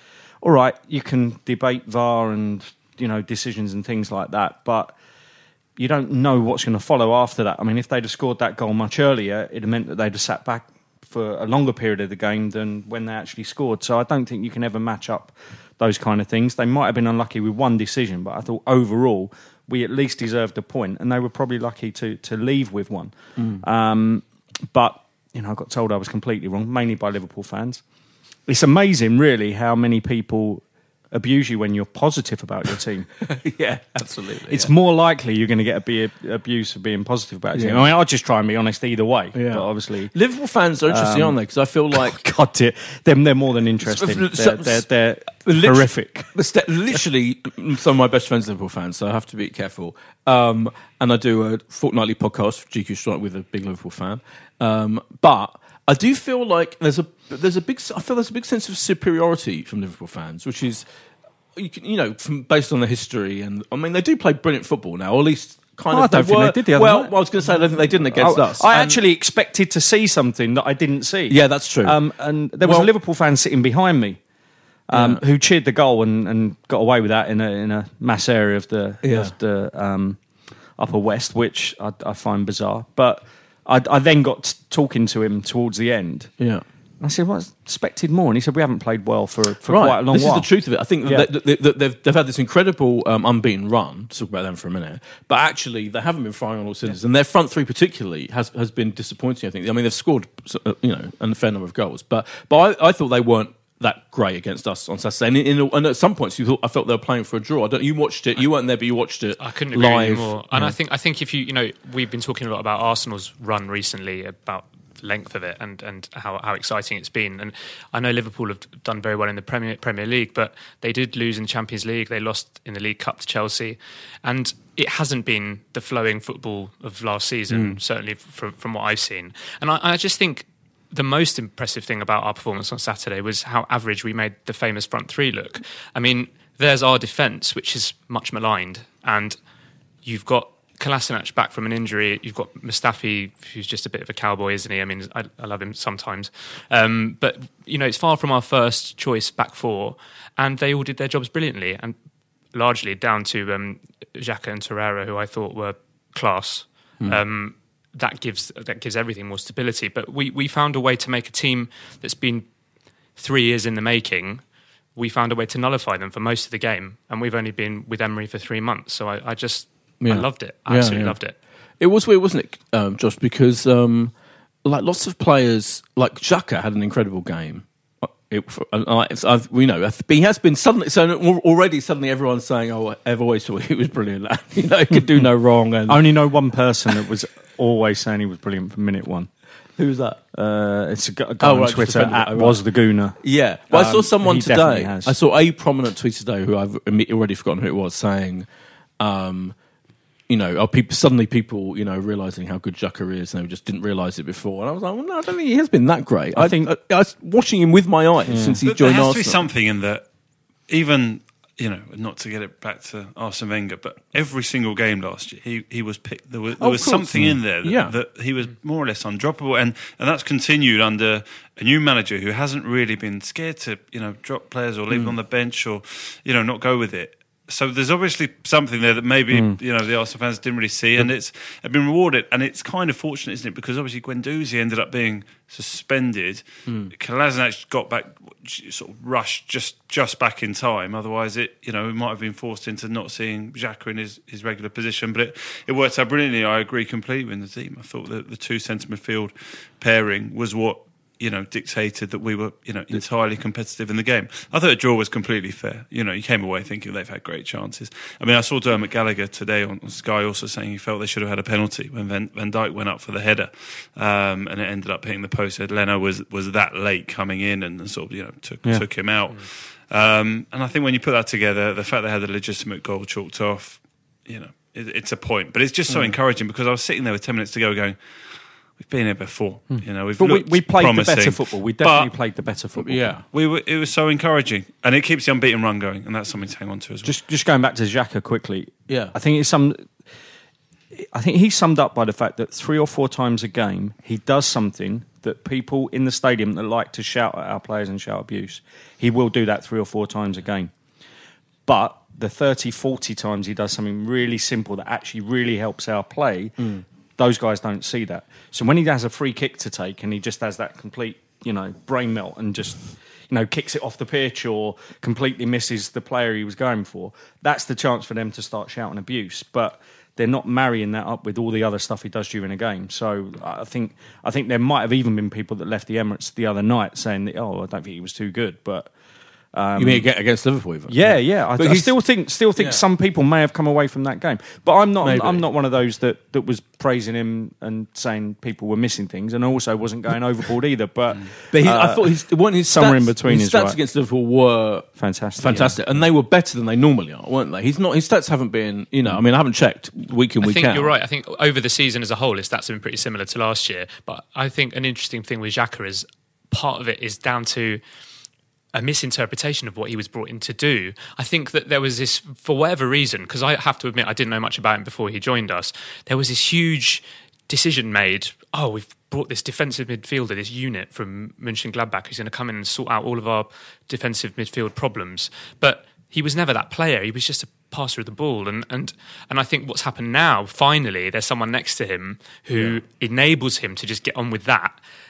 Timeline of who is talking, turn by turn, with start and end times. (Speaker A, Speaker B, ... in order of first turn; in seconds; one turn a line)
Speaker A: 0.4-4.9
Speaker A: 5.8-27.8
Speaker B: 23.4-23.6
Speaker A: 28.5-33.1
Speaker B: 33.2-34.7
Speaker A: 34.5-40.1
Speaker B: 37.5-37.8
Speaker B: 39.3-42.1
Speaker A: 40.9-41.4
Speaker A: 41.9-46.3
Speaker B: 43.8-44.8
Speaker B: 45.4-60.9
Speaker B: 61.5-69.0
Speaker A: 65.9-67.1
Speaker A: 68.0-74.2
Speaker B: 71.3-72.0
Speaker B: 72.6-72.9
Speaker A: 74.9-80.2
Speaker B: 74.9-75.2
Speaker B: 79.0-79.3
Speaker A: 80.8-86.3
Speaker B: 86.4-86.6
Speaker A: 87.0-90.5
Speaker B: 89.7-110.4
Speaker A: 91.0-91.3
Speaker C: 109.4-139.4
Speaker B: 127.5-127.8
Speaker C: 140.0-151.9
Speaker C: 152.5-162.4
Speaker C: 163.2-164.4
Speaker C: 164.9-171.4
Speaker B: 170.0-171.2
Speaker B: 171.8-174.1
Speaker B: 174.6-186.0
Speaker A: 185.9-189.3
Speaker B: 189.8-190.2
Speaker A: 190.3-195.1
Speaker B: 191.4-192.6
Speaker B: 193.2-198.4
Speaker B: 199.0-199.6
Speaker B: 200.3-209.4
Speaker A: 206.3-206.7
Speaker A: 208.2-208.6
Speaker D: 208.6-210.0
Speaker D: 210.7-282.1
Speaker B: 216.6-217.9
Speaker A: 229.3-229.6
Speaker B: 236.7-236.9
Speaker B: 275.9-276.1
Speaker A: 279.7-283.1
Speaker B: 282.8-283.2
Speaker D: 283.3-287.1
Speaker A: 287.0-289.9
Speaker B: 288.9-289.1
Speaker A: 290.9-300.7
Speaker A: 301.6-328.9
Speaker B: 306.6-306.8
Speaker A: 329.5-330.1
Speaker B: 329.8-331.9
Speaker A: 330.9-343.8
Speaker B: 332.6-332.8
Speaker B: 335.0-335.4
Speaker B: 341.5-350.9
Speaker A: 345.0-345.8
Speaker C: 350.4-357.8
Speaker C: 358.7-384.8